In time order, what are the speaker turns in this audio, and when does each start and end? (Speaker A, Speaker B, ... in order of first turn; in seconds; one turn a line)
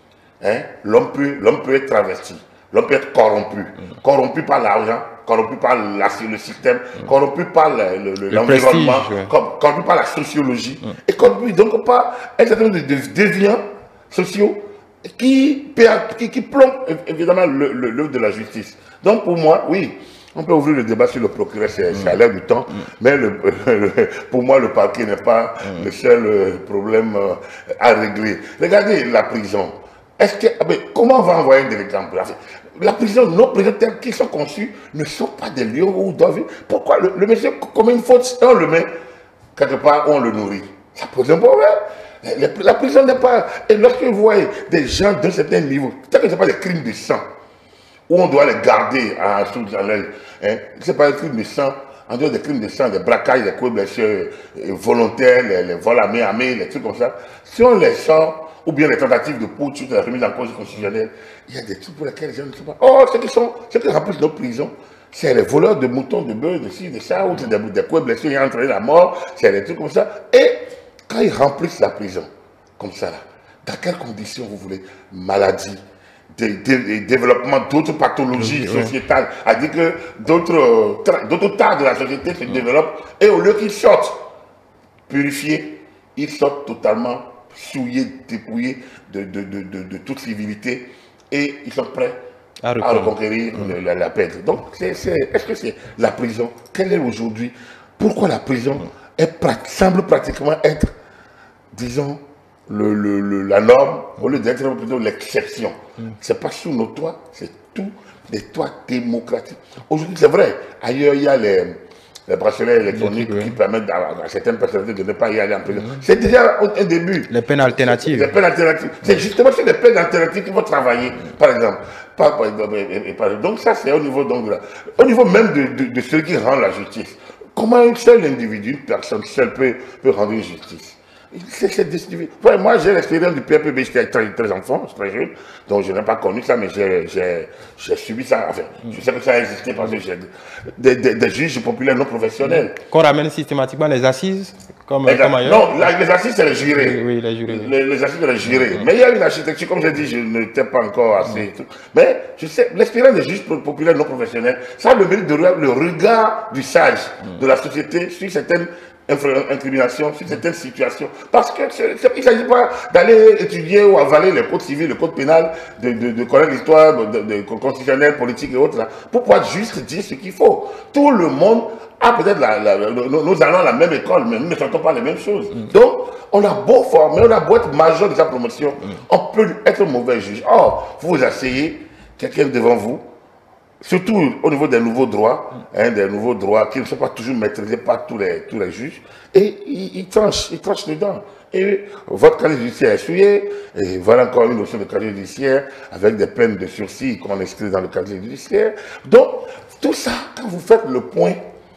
Speaker A: 0.4-38.9
Speaker B: 8.3-9.3
Speaker A: 39.5-47.2
Speaker A: 48.1-72.3
Speaker A: 72.8-75.8
Speaker A: 76.3-84.2
Speaker B: 78.3-78.9
Speaker A: 85.1-92.2
Speaker B: 92.6-93.1
Speaker A: 92.8-100.9
Speaker A: 101.7-142.8
Speaker B: 112.9-113.6
Speaker B: 115.7-116.0
Speaker B: 117.3-118.3
Speaker B: 142.4-145.9
Speaker A: 145.1-183.1
Speaker B: 146.8-147.7
Speaker B: 148.5-148.9
Speaker A: 183.8-201.4